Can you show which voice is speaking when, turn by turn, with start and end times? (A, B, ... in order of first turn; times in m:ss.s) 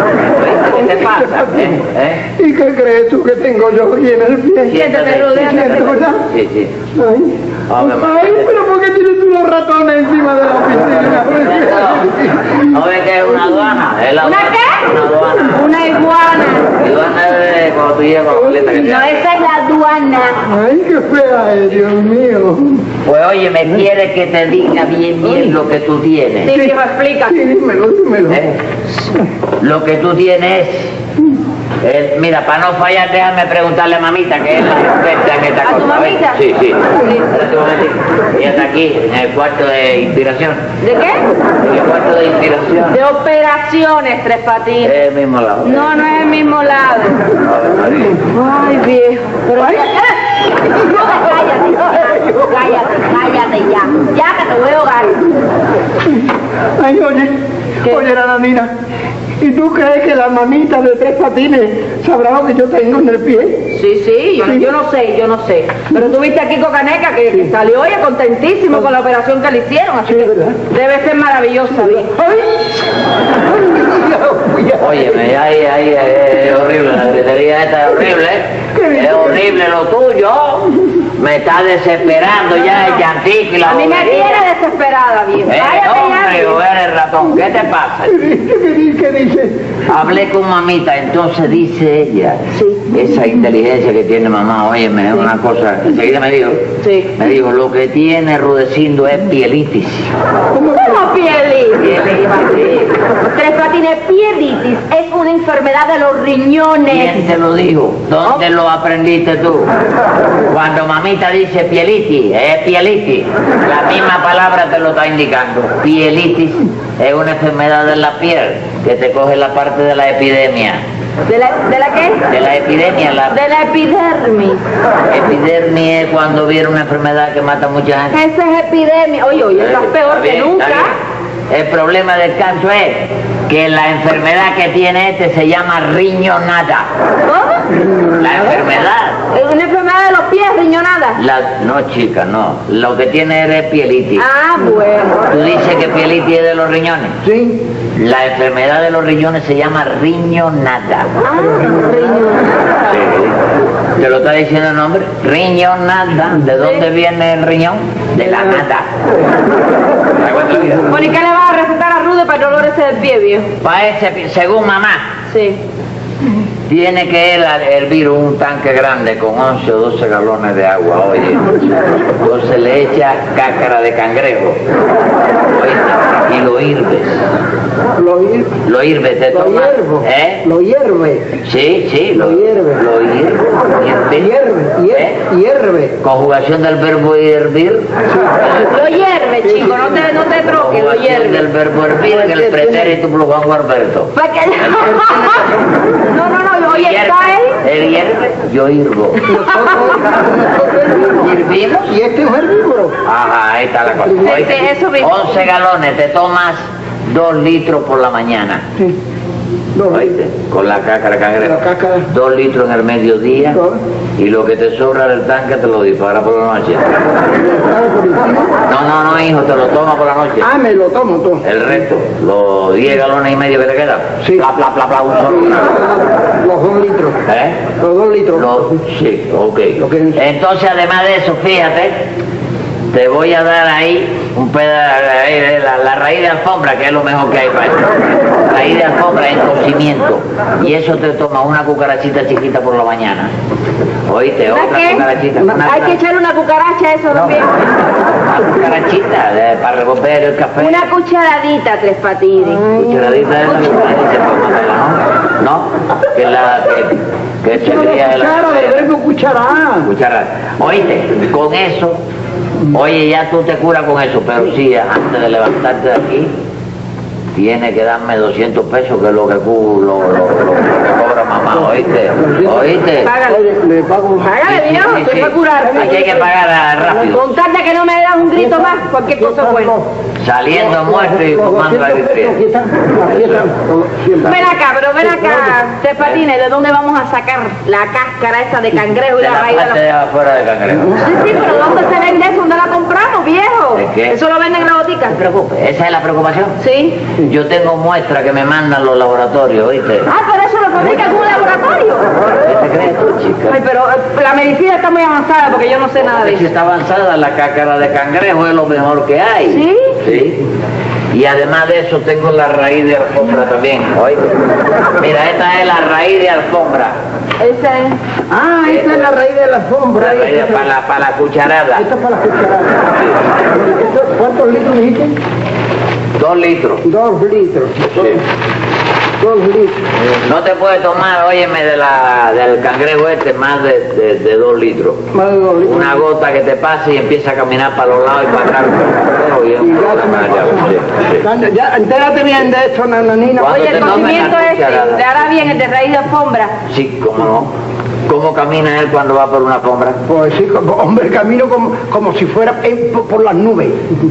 0:00.3-0:02.2 A
0:00.7-0:01.8 B
0:02.4-0:06.2 B
0:04.7-0:06.7 A
0:04.7-0:06.0 C
0:07.0-0:12.8 B
0:07.7-0:08.5 A
0:10.9-0:12.1 A
0:12.6-0:15.7 A
0:14.2-0:14.9 C
0:15.4-0:16.7 C
0:16.8-0:19.2 A
0:18.4-0:18.8 B
0:18.8-0:20.4 C
0:20.5-0:22.8 B
0:23.0-0:26.5 A
0:26.4-0:27.4 C
0:26.5-0:28.5 B
0:28.3-0:28.6 A
0:29.6-0:31.0 A
0:31.8-0:40.7 A
0:35.6-0:36.4 C
0:37.0-0:37.2 C
0:40.8-0:41.2 C
0:41.6-0:43.0 A
0:42.9-0:45.0 C
0:44.8-0:46.0 A
0:45.6-0:47.3 C
0:47.4-0:48.2 A
0:48.2-0:55.2 C
0:49.6-0:49.9 B
0:51.7-0:52.7 B
0:56.8-0:58.7 B
0:59.4-1:03.7 B
1:03.7-1:12.1 C
1:04.4-1:04.7 B
1:10.0-1:10.6 B
1:11.8-1:12.8 B
1:13.5-1:15.2 B
1:14.8-1:24.4 A
1:18.7-1:19.4 B
1:23.6-1:26.6 C
1:25.5-1:28.2 A
1:28.1-1:29.6 B
1:29.9-1:40.1 A
1:32.5-1:32.9 C
1:36.8-1:37.2 C
1:40.6-1:41.0 B
1:40.6-1:42.8 C
1:41.8-1:42.9 A
1:43.3-1:47.3 C
1:46.9-1:49.7 A
1:50.5-2:00.8 A
2:01.3-2:02.3 C
2:02.3-2:03.4 A
2:03.3-2:04.6 C
2:05.1-2:08.2 A
2:08.1-2:11.0 C
2:09.5-2:11.0 A
2:11.5-2:16.9 A
2:17.3-2:17.7 C
2:17.8-2:18.3 B
2:18.2-2:19.2 A
2:19.3-2:21.2 C
2:21.2-2:24.2 A
2:24.2-2:25.2 C
2:25.3-2:27.2 A
2:27.2-2:27.6 B
2:28.0-2:31.1 A
2:31.2-2:32.5 C
2:31.4-2:32.4 B
2:32.9-2:33.4 A
2:34.0-2:38.9 A
2:40.2-2:41.0 A
2:40.9-2:43.5 C
2:43.6-2:45.1 A
2:45.3-2:45.6 C
2:46.7-2:54.6 A
2:55.5-2:57.2 A
2:58.0-2:58.5 B
2:58.6-3:00.4 A
2:59.3-3:01.3 B
3:01.4-3:04.3 A
3:02.2-3:02.8 B
3:04.2-3:06.0 B
3:04.9-3:05.2 A
3:06.0-3:08.8 A
3:08.5-3:11.4 C
3:09.4-3:10.0 B
3:10.5-3:15.1 A
3:12.0-3:13.0 B
3:14.2-3:15.5 C
3:14.8-3:15.8 B
3:16.1-3:17.6 C
3:16.7-3:19.3 A
3:19.3-3:23.0 B
3:21.2-3:21.9 A
3:23.0-3:28.6 A
3:24.1-3:24.5 B
3:24.2-3:25.2 C
3:29.8-3:30.1 B
3:29.9-3:33.6 A
3:31.4-3:32.1 B
3:33.5-3:33.8 B
3:34.2-3:36.8 A
3:37.3-3:38.6 B
3:38.7-3:40.5 A
3:40.4-3:41.4 B
3:41.4-3:45.8 A
3:45.3-3:47.2 B
3:47.3-3:47.6 A
3:47.8-3:48.8 B
3:48.4-3:52.1 A
3:49.8-3:50.2 B
3:52.9-4:03.3 A
4:04.1-4:06.0 A
4:04.5-4:07.8 C
4:07.1-4:07.4 A
4:08.1-4:10.9 A
4:10.6-4:12.7 C
4:12.7-4:13.1 B
4:12.7-4:18.9 A
4:17.5-4:19.9 B
4:19.8-4:22.0 A
4:22.7-4:26.3 A
4:27.4-4:33.1 A
4:32.2-4:32.7 B
4:33.0-4:33.4 C
4:33.2-4:34.3 B
4:34.2-4:36.2 C
4:34.5-4:37.4 A
4:35.6-4:36.0 B
4:37.0-4:39.8 C
4:38.4-4:39.9 B
4:40.2-4:42.4 A
4:40.5-4:44.5 B
4:43.1-4:43.5 A
4:44.2-4:49.8 C
4:45.0-4:45.6 B
4:49.2-4:51.0 A
4:51.0-4:55.2 C
4:53.8-4:54.2 A
4:55.1-4:56.6 A
4:56.6-4:57.0 C
4:57.2-5:00.1 A
5:00.1-5:02.1 C
5:02.4-5:03.6 A
5:03.5-5:06.5 C
5:06.0-5:10.4 A
5:09.5-5:10.0 C
5:11.1-5:14.4 A
5:15.0-5:17.0 A
5:17.4-5:18.0 C
5:18.3-5:20.7 B
5:18.6-5:19.2 A
5:20.0-5:21.9 A
5:21.8-5:22.9 B
5:23.0-5:23.2 A
5:23.4-5:25.2 B
5:26.2-5:26.8 A
5:26.8-5:28.2 B
5:27.9-5:28.2 A
5:29.2-5:29.9 B
5:30.2-5:35.0 A
5:35.1-5:36.0 B
5:35.6-5:41.2 A
5:39.6-5:44.3 B
5:43.4-5:45.0 A
5:43.4-5:46.6 C
5:46.7-5:47.5 A
5:48.1-5:50.0 A
5:50.1-5:53.8 B